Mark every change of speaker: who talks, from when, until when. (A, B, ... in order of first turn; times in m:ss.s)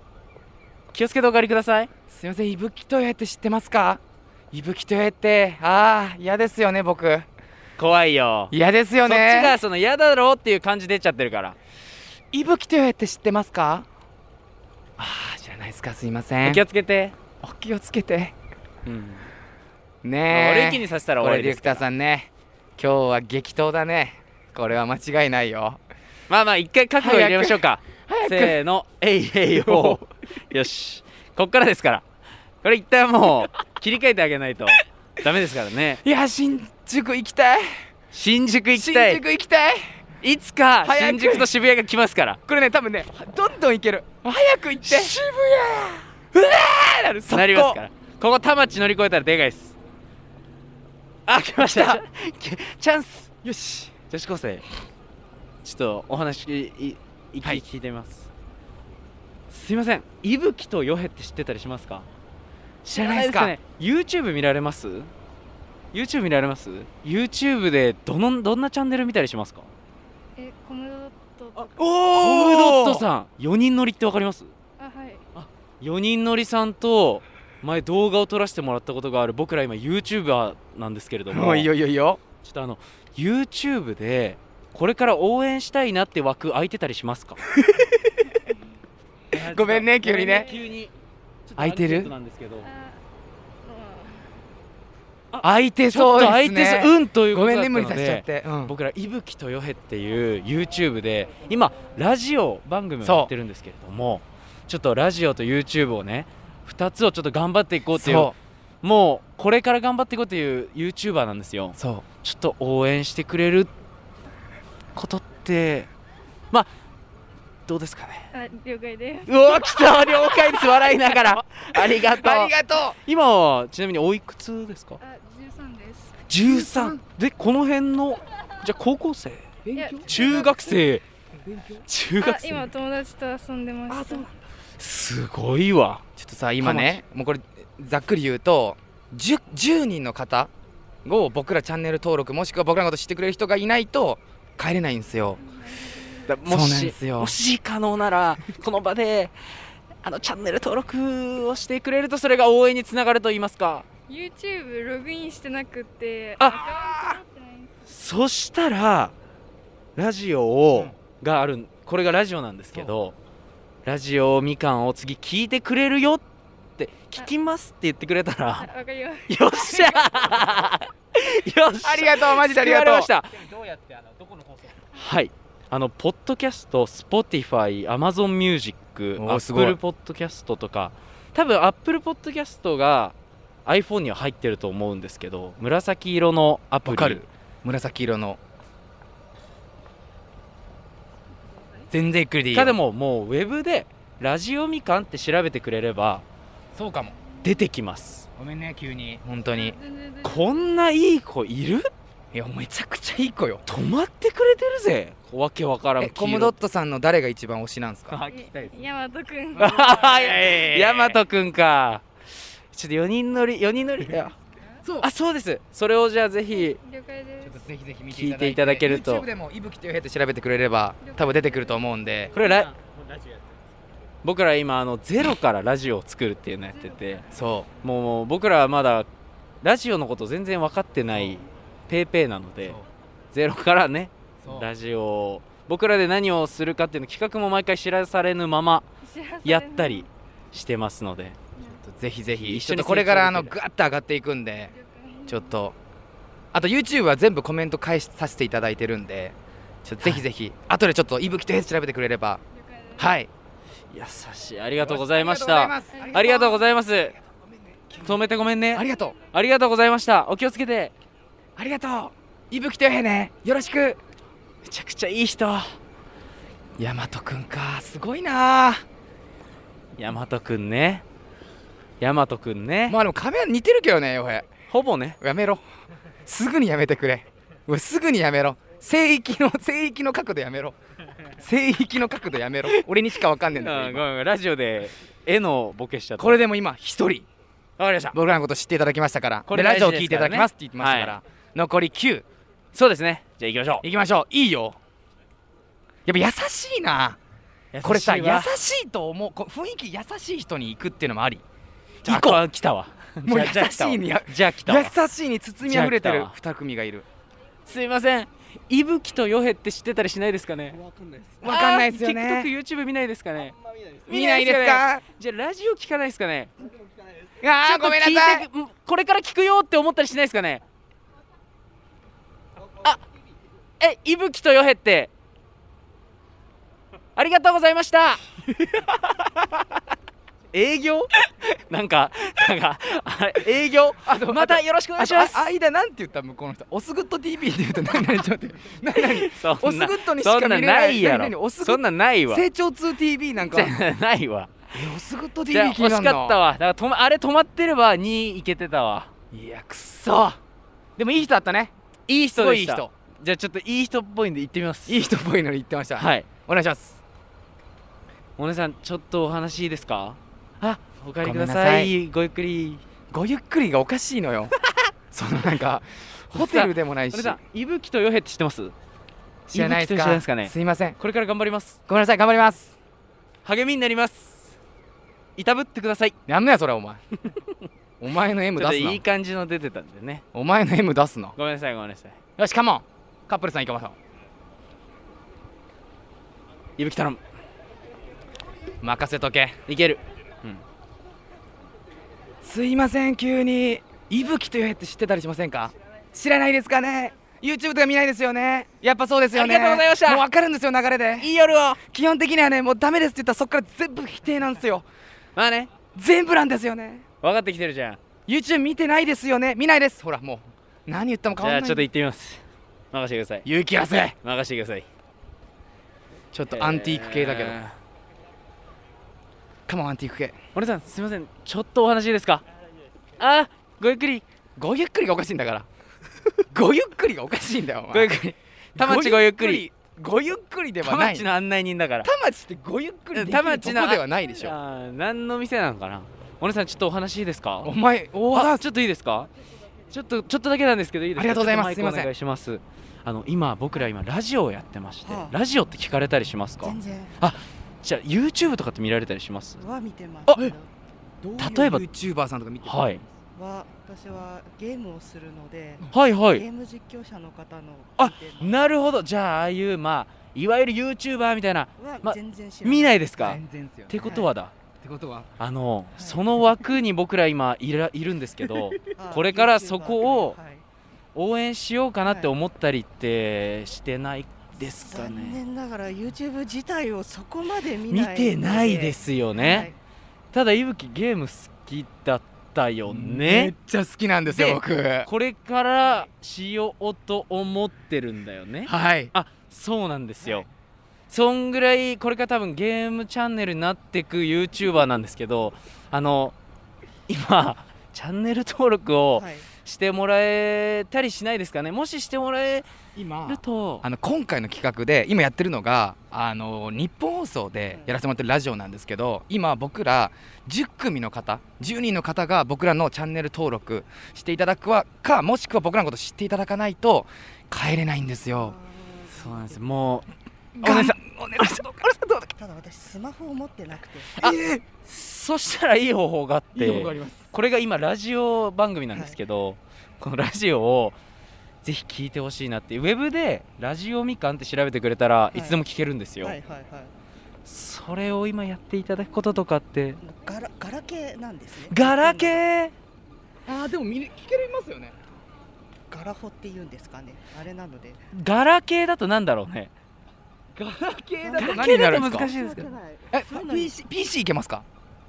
0:00.9-0:01.9 A
0:02.1-0:04.0 B
0:04.5-0:07.3 B
0:07.8-0:08.5 A
0:08.5-0:09.6 B
0:09.0-0:11.6 A
0:12.3-0:13.9 B
0:15.0-0:16.6 B
0:16.4-0:17.2 A
0:17.4-0:18.3 B
0:18.8-0:19.3 A
0:20.0-0:25.8 B
0:20.3-0:21.8 A
0:26.3-0:32.0 A
0:27.0-0:28.6 B
0:29.5-0:30.1 B
0:32.6-0:36.0 A
0:36.0-0:37.7 B
0:38.1-0:39.2 A
0:38.7-0:39.9 B
0:40.2-0:42.4 A
0:40.8-0:41.5 B
0:42.5-0:47.8 B
0:44.8-0:45.2 A
0:47.3-0:49.8 A
0:51.3-0:53.3 A
0:51.6-0:52.0 B
0:53.4-0:54.0 B
0:54.1-0:54.6 A
0:55.6-0:58.3 A
0:59.5-1:02.0 A
1:02.8-1:05.1 A
1:02.9-1:03.6 B
1:05.9-1:09.7 A
1:10.4-1:11.7 C
1:11.8-1:14.5 A
1:12.0-1:13.0 B
1:14.8-1:15.2 C
1:15.3-1:21.7 A
1:21.3-1:22.2 B
1:22.4-1:27.4 A
1:27.6-1:27.9 B
1:29.3-1:30.9 A
1:29.4-1:30.5 B
1:31.5-1:32.7 A
1:31.6-1:32.1 B
1:32.6-1:33.0 C
1:33.6-1:34.3 C
1:35.3-1:53.7 A
1:35.4-1:38.7 B
1:43.0-1:43.3 B
1:47.9-1:48.4 B
1:51.8-1:52.0 B
1:54.9-1:55.9 A
1:57.7-1:58.3 A
1:58.3-1:59.8 C
1:59.3-2:02.5 A
2:00.7-2:03.0 B
2:03.0-2:05.0 A
2:05.0-2:06.2 C
2:06.3-2:09.5 A
2:06.4-2:07.0 B
2:09.6-2:10.7 B
2:09.7-2:10.1 C
2:10.1-2:11.0 A
2:11.4-2:11.8 B
2:11.9-2:12.7 A
2:12.2-2:14.3 C
2:13.9-2:14.3 B
2:14.8-2:16.0 A
2:16.2-2:20.5 B
2:16.6-2:17.0 A
2:21.0-2:25.4 B
2:26.3-2:29.3 A
2:26.4-2:27.3 B
2:30.0-2:33.9 A
2:34.1-2:37.8 C
2:36.4-2:36.6 A
2:36.5-2:37.2 B
2:37.9-2:39.1 A
2:40.0-2:43.1 A
2:43.8-2:46.2 A
2:46.8-2:48.7 A
2:48.6-2:49.9 C
2:49.3-2:53.9 A
2:51.8-2:53.1 B
2:54.9-3:07.2 A
2:59.2-2:59.8 B
3:06.8-3:08.4 B
3:11.9-3:12.8 B
3:12.5-3:16.2 A
3:16.7-3:17.1 B
3:17.4-3:18.3 A
3:18.4-3:19.8 B
3:19.5-3:20.4 C
3:20.2-3:21.9 A
3:22.3-3:23.6 B
3:23.6-3:26.6 A
3:26.0-3:28.2 B
3:28.1-3:28.8 A
3:28.3-3:29.7 C
3:29.5-3:31.2 B
3:29.6-3:32.0 A
3:32.7-3:34.3 A
3:34.1-3:35.1 B
3:35.0-3:36.8 A
3:36.5-3:37.6 C
3:37.4-3:42.4 B
3:38.1-3:39.3 A
3:41.0-3:41.8 C
3:42.3-3:42.8 A
3:44.2-3:47.2 A
3:46.8-3:47.2 C
3:47.3-3:47.7 B
3:47.8-3:49.1 A
3:49.6-3:52.8 A
3:53.3-3:58.8 A
3:54.4-3:54.7 B
3:59.0-4:00.1 C
3:59.4-4:01.4 A
4:01.6-4:04.7 B
4:02.4-4:03.5 A
4:04.7-4:05.5 C
4:05.3-4:05.8 B
4:06.5-4:12.4 B
4:12.5-4:13.1 C
4:13.0-4:13.3 B
4:13.9-4:17.1 A
4:14.8-4:16.6 B
4:15.9-4:16.2 C
4:17.9-4:18.2 B
4:18.0-4:20.9 A
4:18.7-4:19.1 B
4:21.6-4:24.0 B
4:24.6-4:25.8 A
4:26.8-4:28.8 B
4:30.0-4:31.0 A
4:32.0-4:33.0 A
4:32.9-4:34.5 B
4:34.7-4:35.2 A
4:35.2-4:35.6 B
4:36.2-4:40.8 B
4:41.4-4:44.0 B
4:43.6-4:46.4 A
4:46.2-4:47.3 B
4:47.8-4:48.2 A
4:48.1-4:52.2 B
4:49.5-4:51.2 A
4:52.7-4:53.8 A
4:53.8-4:54.8 B
4:56.0-4:57.2 B
4:57.7-4:58.5 A
4:57.8-5:01.4 B
5:02.0-5:02.4 B
5:02.0-5:04.9 A
5:03.2-5:07.0 B
5:05.6-5:06.3 A
5:07.6-5:10.8 A
5:11.4-5:12.5 B
5:11.4-5:16.5 A
5:14.1-5:15.0 B
5:17.4-5:18.5 B
5:17.6-5:20.6 A
5:23.8-5:25.1 A
5:27.1-5:28.2 A
5:30.5-5:31.1 A
5:31.7-5:35.5 A
5:34.0-5:43.8 B
5:39.0-5:42.4 A
5:43.5-5:44.7 A
5:44.7-5:46.4 B
5:45.5-5:49.1 A
5:49.3-5:50.4 B
5:51.0-5:51.7 B
5:52.1-5:55.0 A
5:52.3-5:52.9 B
5:54.9-5:57.0 B
5:56.0-5:56.3 A
5:58.4-6:02.8 A
6:01.2-6:01.9 B
6:03.1-6:04.5 B
6:05.1-6:07.4 B
6:06.3-6:08.7 A
6:09.5-6:11.0 B
6:09.5-6:11.8 A
6:11.9-6:12.7 B
6:13.4-6:14.6 A
6:15.4-6:16.2 A
6:16.3-6:17.0 B
6:18.0-6:19.0 B
6:18.6-6:20.2 A
6:20.3-6:21.3 B
6:21.4-6:22.2 A
6:22.4-6:24.0 B
6:26.8-6:27.2 A
6:28.8-6:29.6 B
6:29.7-6:30.6 A
6:32.4-6:44.8 B
6:39.3-6:40.3 A
6:41.2-6:41.8 A
6:45.4-6:45.7 A
6:45.9-6:47.0 B
6:47.2-6:48.0 A
6:48.3-6:51.9 B
6:51.4-6:53.5 A
6:53.4-6:54.2 B
6:54.2-6:54.8 A
6:56.3-6:57.6 B
6:56.5-6:57.7 A
6:59.7-7:00.4 B
7:00.5-7:02.4 A
7:03.2-7:04.2 A
7:04.6-7:05.7 B
7:06.5-7:11.3 B
7:07.9-7:09.7 A
7:10.8-7:12.1 A
7:12.0-7:14.6 B
7:13.1-7:17.7 A
7:17.6-7:18.6 B
7:18.3-7:19.3 A
7:19.9-7:29.6 A
7:21.2-7:22.1 B
7:25.0-7:25.4 D
7:26.6-7:27.1 D
7:29.6-7:30.7 D
7:30.3-7:30.5 B
7:31.2-7:33.2 B
7:31.4-7:31.8 A
7:32.6-7:33.0 A
7:33.3-7:38.5 D
7:35.9-7:36.4 A
7:38.0-7:44.5 A
7:41.8-7:43.4 D
7:43.2-7:44.2 B
7:44.0-7:44.3 D
7:44.8-7:45.3 B
7:45.4-7:50.4 A
7:49.0-7:50.6 D
7:51.1-7:55.4 A
7:52.0-7:52.3 D
7:54.7-7:59.8 D
7:57.9-7:59.7 A
8:00.3-8:03.5 A
8:02.8-8:05.1 B
8:04.3-8:10.4 A
8:08.6-8:09.1 B
8:11.1-8:16.3 A
8:17.1-8:22.7 A
8:19.1-8:19.5 D
8:22.9-8:38.6 B
8:23.2-8:23.8 A
8:38.3-8:39.6 D
8:39.1-8:41.0 A
8:40.6-8:42.3 B
8:42.4-8:44.1 D
8:44.2-8:44.6 B
8:44.2-8:51.0 A
8:46.5-8:47.3 B
8:51.6-8:56.4 A
8:55.3-8:55.6 D
8:56.2-8:56.9 D
8:57.4-9:00.0 A
9:00.0-9:02.4 D
9:01.7-9:02.7 A
9:03.4-9:04.9 B
9:05.9-9:08.0 D
9:08.1-9:09.7 A
9:10.5-9:12.3 B
9:11.2-9:13.8 D
9:11.4-9:12.7 A
9:13.1-9:14.6 B